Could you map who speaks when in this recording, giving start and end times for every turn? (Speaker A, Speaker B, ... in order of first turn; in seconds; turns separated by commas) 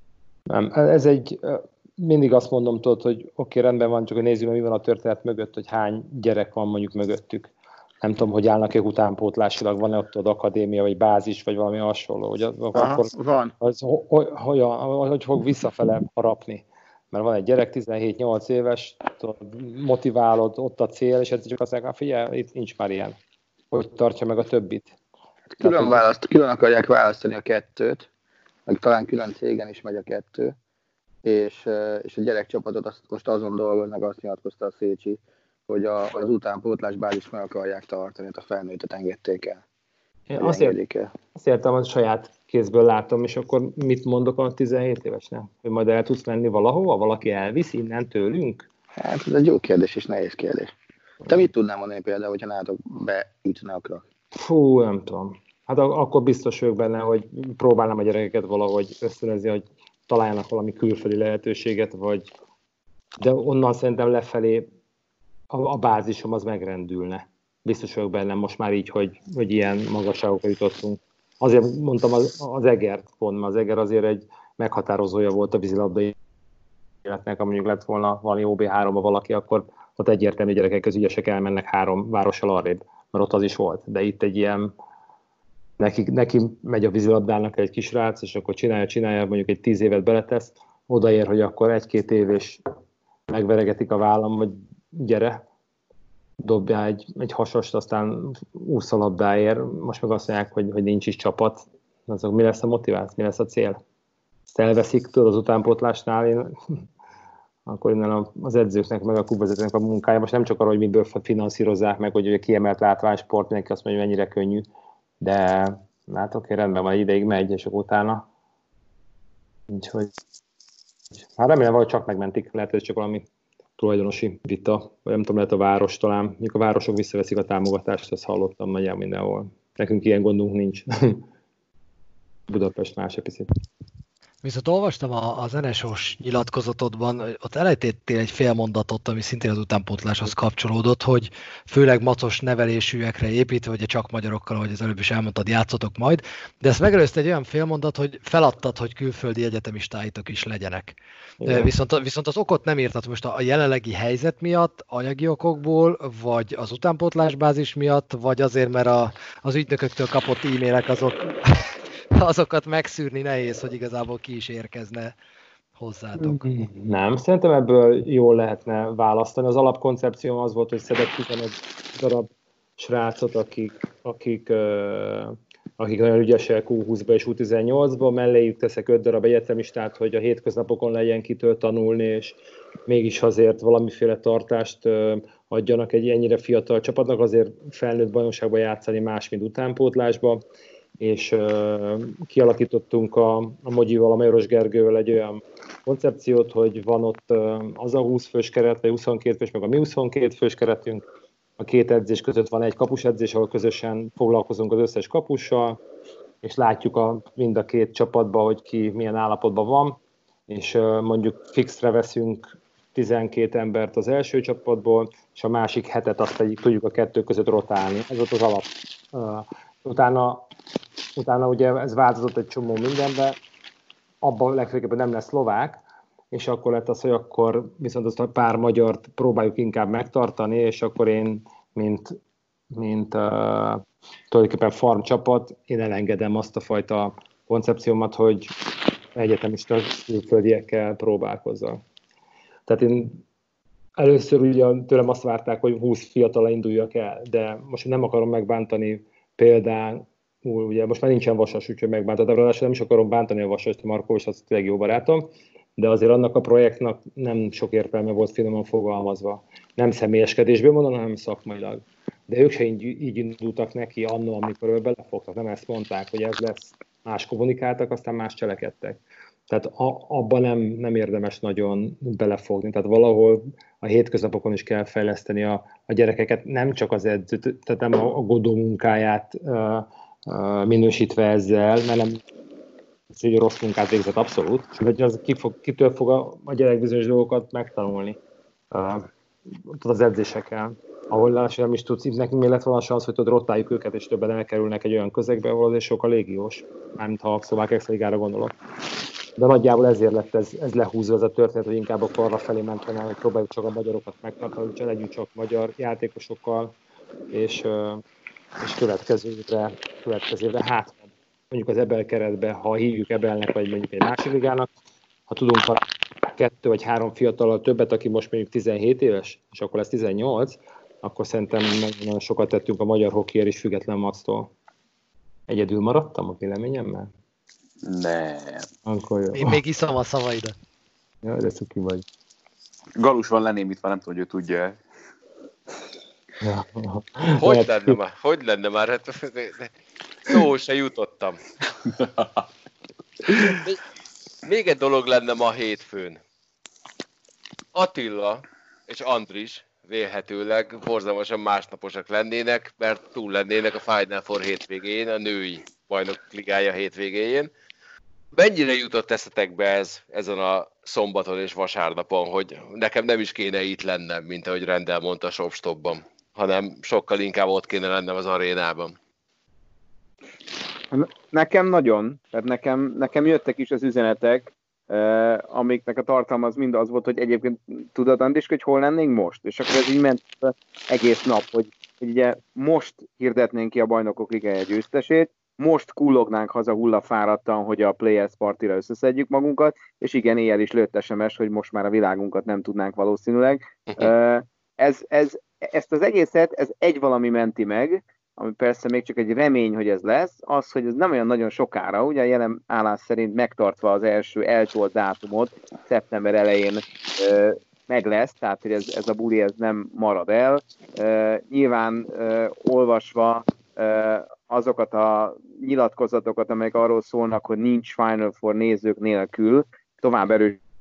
Speaker A: 0.5-23.2, Speaker B: 12.7-13.5, Speaker A: 23.7-24.9, Speaker B: 25.6-28.1, Speaker A: 25.6-26.0, Speaker B: 28.7-30.5, Speaker B: 31.2-39.6, Speaker A: 40.3-40.8, Speaker B: 40.4-41.1, Speaker A: 41.4-48.7, Speaker B: 49.0-50.7, Speaker B: 51.2-54.0, Speaker A: 54.3-62.3, Speaker A: 63.2-64.7, Speaker A: 65.5-76.2, Speaker A: 77.0-84.7, Speaker A: 85.8-92.6, Speaker A: 93.3-95.4, Speaker A: 96.4-103.8, Speaker A: 104.5-106.5, Speaker A: 107.7-114.7, Speaker A: 115.2-118.3, Speaker A: 119.7-120.1, Speaker A: 121.3-123.2, Speaker A: 123.8-131.2, Speaker A: 132.5-133.5, Speaker C: 134.4-150.9, Speaker A: 151.4-151.7, Speaker C: 151.5-161.6, Speaker C: 162.2-165.2, Speaker C: 165.8-166.4, Speaker A: 166.2-190.4, Speaker A: 191.0-201.1, Speaker A: 201.6-205.8, Speaker A: 206.4-220.5, Speaker A: 221.2-223.4, Speaker A: 224.2-225.8, Speaker A: 226.3-232.2, Speaker A: 232.7-238.6, Speaker A: 239.1-241.8, Speaker A: 242.7-243.2, Speaker A: 244.0-282.2, Speaker A: 283.1-288.2, Speaker A: 288.7-289.1, Speaker A: 289.7-298.6, Speaker A: 299.4-306.8, Speaker A: 307.3-308.0, Speaker A: 308.6-314.7, Speaker A: 315.3-324.5, Speaker A: 325.5-327.1, Speaker D: 327.8-328.7, Speaker A: 328.9-329.6, Speaker C: 329.4-330.5, Speaker A: 331.2-332.1, Speaker D: 333.0-334.8, Speaker A: 336.4-338.0, Speaker E: 337.4-339.7, Speaker E: 340.3-341.4, Speaker D: 342.0-342.3, Speaker E: 343.5-343.8, Speaker E: 344.4-346.2, Speaker E: 347.7-357.5, Speaker E: 358.4-369.0, Speaker F: 370.9-420.6